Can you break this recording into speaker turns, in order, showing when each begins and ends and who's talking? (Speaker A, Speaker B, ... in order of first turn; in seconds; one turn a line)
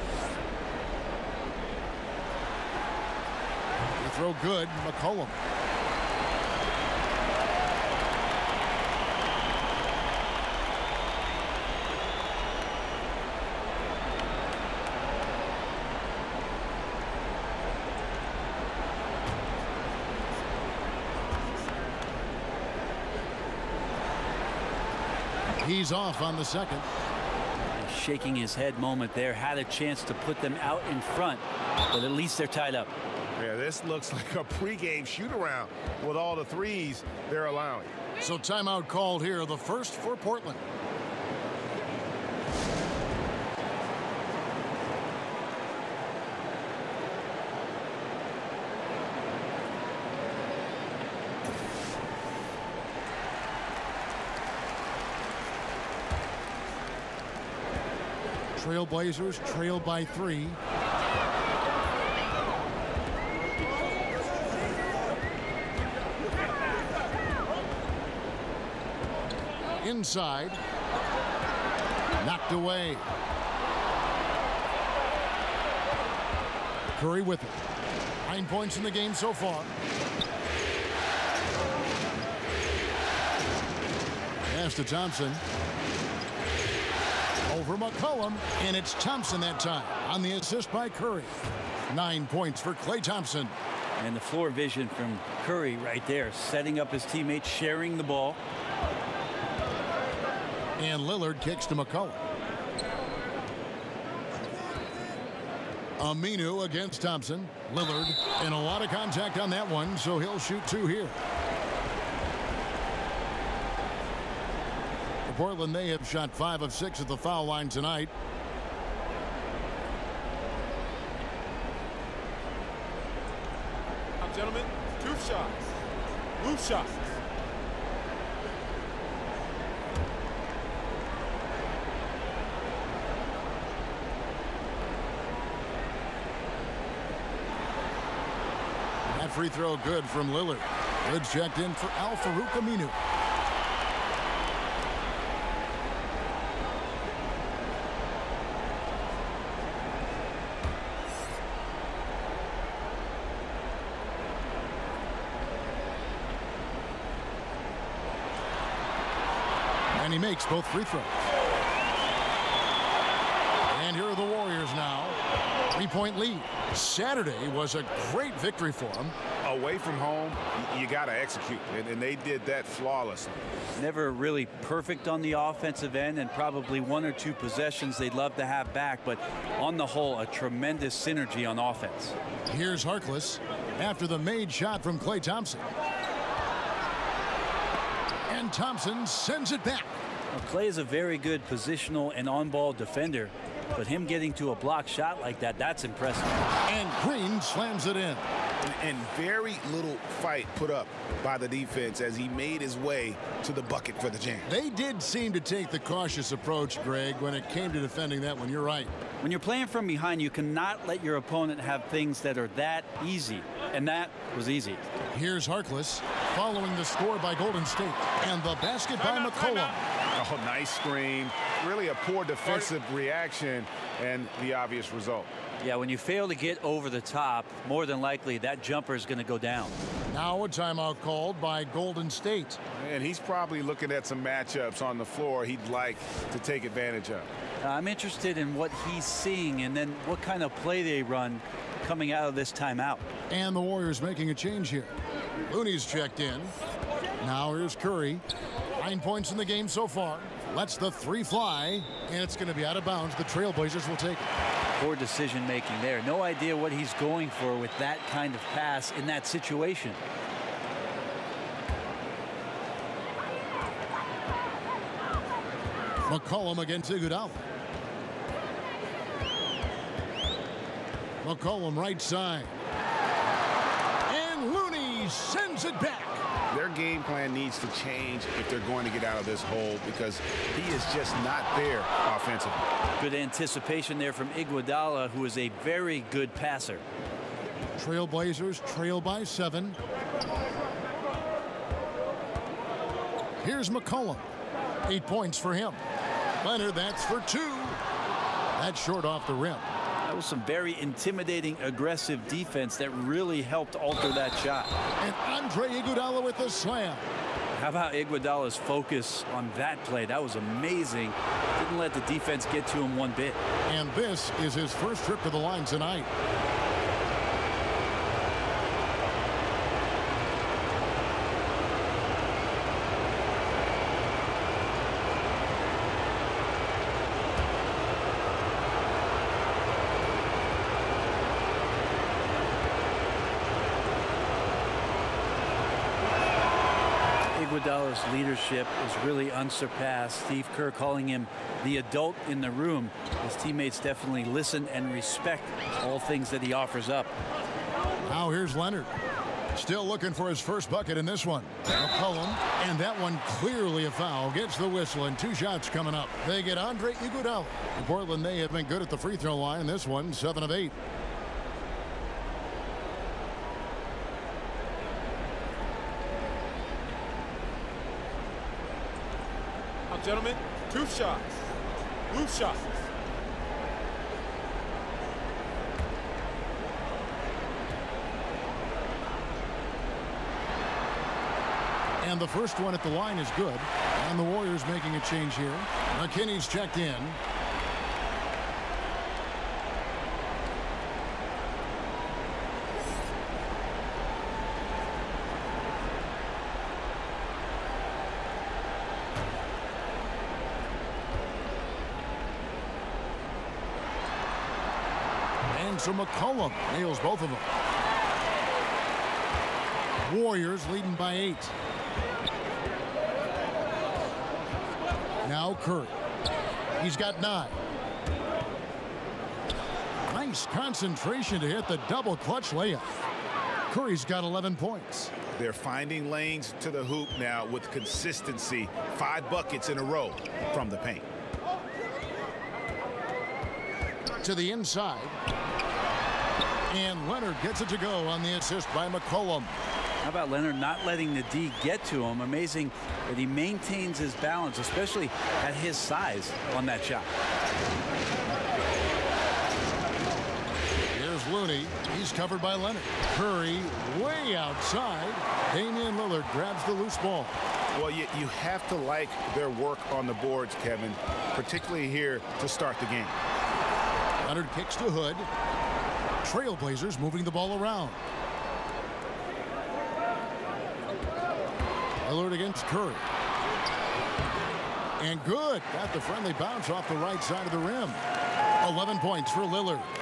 Speaker A: 4.0-5.4
Speaker A: 25.6-26.9
Speaker B: 27.8-32.9
Speaker C: 33.4-37.9
Speaker A: 38.2-40.6
Speaker A: 58.5-60.6
Speaker A: 69.8-70.6
Speaker A: 72.2-73.0
Speaker A: 77.0-77.7
Speaker A: 78.2-79.7
Speaker A: 84.5-85.4
Speaker A: 87.5-91.4
Speaker A: 91.9-93.5
Speaker B: 94.0-98.4
Speaker A: 100.8-102.2
Speaker A: 106.0-111.2
Speaker A: 115.2-118.1
Speaker D: 124.2-125.6
Speaker D: 126.4-127.1
Speaker A: 139.1-143.0
Speaker A: 159.9-161.2
Speaker A: 163.7-165.2
Speaker A: 165.7-169.1
Speaker C: 169.4-173.5
Speaker B: 173.8-182.2
Speaker A: 182.5-185.7
Speaker A: 188.3-189.9
Speaker B: 190.3-196.4
Speaker A: 196.6-198.2
Speaker C: 198.6-204.5
Speaker A: 204.4-208.9
Speaker B: 209.2-214.8
Speaker A: 215.1-219.8
Speaker C: 220.1-225.3
Speaker B: 225.6-229.7
Speaker A: 230.1-232.6
Speaker C: 232.8-237.3
Speaker B: 237.6-243.1
Speaker A: 243.3-244.9
Speaker A: 245.5-246.5
Speaker A: 247.2-248.2
Speaker A: 248.8-254.2
Speaker B: 254.8-260.0
Speaker A: 266.1-267.4
Speaker A: 271.2-272.5
Speaker A: 274.1-276.2
Speaker C: 276.5-282.7
Speaker B: 283.0-286.8
Speaker A: 287.8-289.8
Speaker A: 293.4-294.3
Speaker A: 294.8-295.8
Speaker A: 296.4-297.8
Speaker A: 298.6-299.7
Speaker B: 300.0-304.7
Speaker A: 305.0-307.1
Speaker B: 307.6-313.4
Speaker A: 313.6-316.1
Speaker B: 337.3-347.1
Speaker A: 348.0-348.9
Speaker A: 349.5-360.8
Speaker D: 369.9-371.4
Speaker D: 372.1-372.8
Speaker A: 382.0-387.2
Speaker A: 405.5-407.5
Speaker A: 410.0-411.5
Speaker A: 415.2-416.0
Speaker A: 416.8-417.6
Speaker A: 420.1-423.0
Speaker A: 423.7-425.1
Speaker C: 425.4-431.1
Speaker A: 434.2-435.2
Speaker A: 436.7-439.5
Speaker B: 440.0-447.1
Speaker A: 450.9-457.3
Speaker C: 457.7-463.2
Speaker A: 464.2-465.3
Speaker A: 466.2-468.0
Speaker A: 472.0-473.0
Speaker A: 475.0-478.0
Speaker A: 478.6-479.9